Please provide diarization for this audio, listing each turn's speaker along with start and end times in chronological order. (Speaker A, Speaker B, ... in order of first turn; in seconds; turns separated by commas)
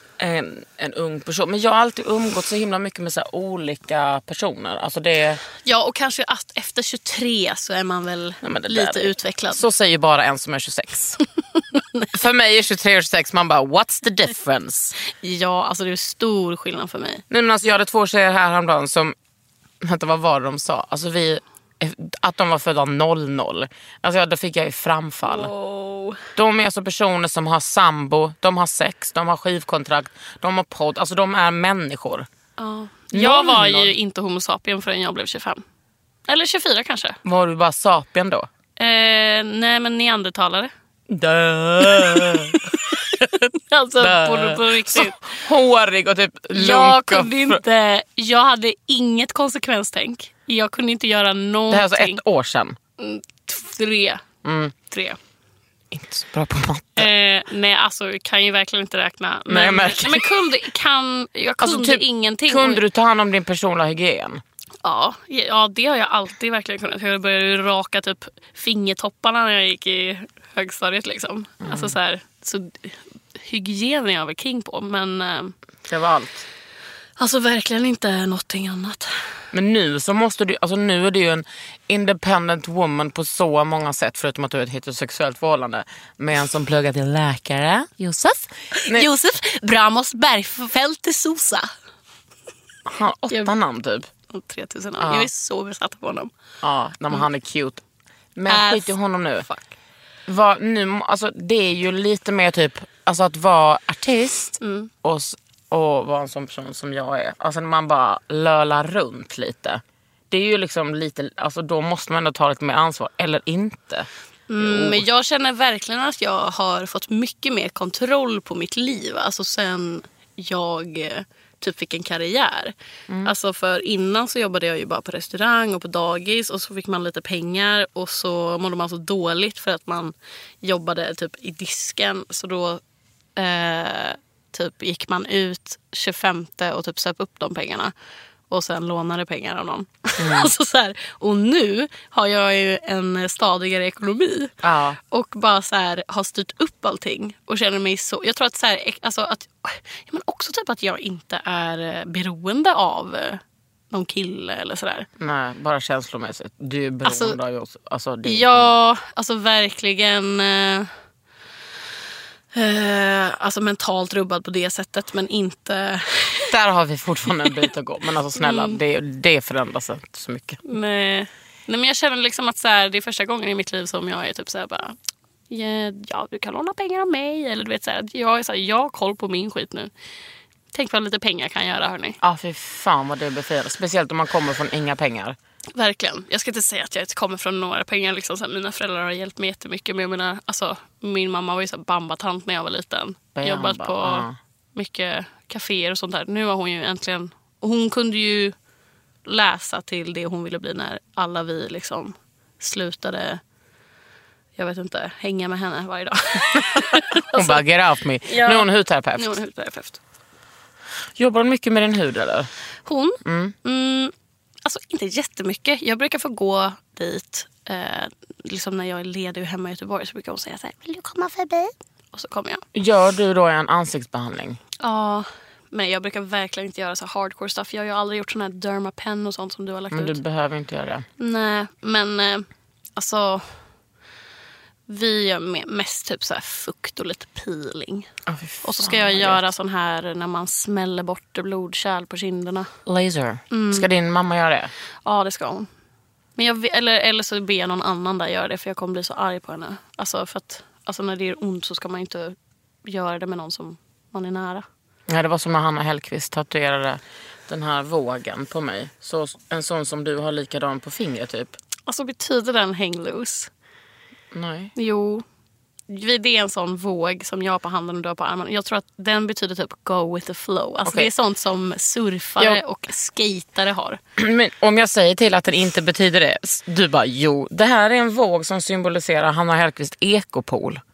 Speaker A: 0.2-5.4, Speaker B: 5.6-9.6, Speaker A: 8.4-11.2, Speaker B: 11.7-12.1, Speaker A: 12.1-15.0, Speaker B: 15.1-17.2, Speaker A: 17.3-19.1, Speaker A: 19.8-25.5, Speaker B: 25.2-26.2, Speaker A: 26.4-32.3, Speaker B: 32.6-35.6, Speaker A: 33.1-33.9, Speaker B: 36.3-37.2, Speaker A: 37.2-38.5, Speaker B: 38.8-40.7, Speaker A: 41.1-43.3, Speaker B: 41.8-43.0, Speaker B: 43.7-45.2, Speaker A: 44.0-47.6, Speaker B: 46.5-52.2, Speaker A: 51.7-52.8, Speaker B: 53.0-54.2, Speaker A: 54.4-54.8, Speaker B: 54.9-55.2, Speaker A: 55.9-57.1, Speaker B: 57.0-62.8, Speaker A: 59.5-60.3, Speaker A: 61.6-64.4, Speaker B: 64.8-75.5, Speaker A: 71.6-71.9, Speaker A: 75.9-76.5, Speaker B: 77.2-79.1, Speaker A: 79.5-89.1, Speaker B: 88.8-91.7, Speaker A: 92.9-94.1, Speaker B: 94.3-96.3, Speaker A: 95.0-95.3, Speaker A: 96.6-97.8, Speaker A: 98.4-99.5, Speaker B: 98.5-99.6, Speaker A: 100.3-114.1, Speaker B: 104.6-104.9, Speaker B: 114.5-122.7, Speaker A: 114.6-115.0, Speaker B: 123.2-132.8, Speaker B: 133.4-137.9, Speaker B: 138.5-144.6, Speaker A: 140.2-140.5, Speaker A: 144.6-145.0, Speaker B: 145.1-155.1, Speaker A: 155.2-158.7, Speaker B: 157.1-157.4, Speaker B: 158.2-160.9, Speaker B: 162.5-166.5, Speaker A: 166.5-170.6, Speaker B: 168.4-168.8, Speaker B: 170.7-175.0, Speaker B: 175.5-179.9, Speaker B: 180.7-182.2, Speaker A: 182.2-185.4, Speaker B: 185.8-198.6, Speaker A: 193.3-194.4, Speaker B: 199.3-203.4, Speaker B: 204.6-207.7, Speaker A: 207.3-209.4, Speaker B: 208.3-210.0, Speaker A: 211.2-212.5, Speaker B: 212.9-214.1, Speaker A: 213.2-213.5, Speaker B: 214.7-222.6, Speaker A: 222.8-224.6, Speaker B: 224.8-230.2, Speaker A: 229.9-231.1, Speaker B: 231.2-233.6, Speaker B: 234.9-238.1, Speaker A: 238.3-239.4, Speaker B: 238.6-242.7, Speaker A: 242.9-244.7, Speaker B: 243.5-243.9, Speaker B: 245.1-245.7, Speaker B: 246.4-254.7, Speaker A: 255.1-261.6, Speaker B: 261.9-263.5, Speaker A: 264.3-264.7, Speaker B: 264.8-265.2, Speaker B: 265.9-274.0, Speaker A: 274.2-280.8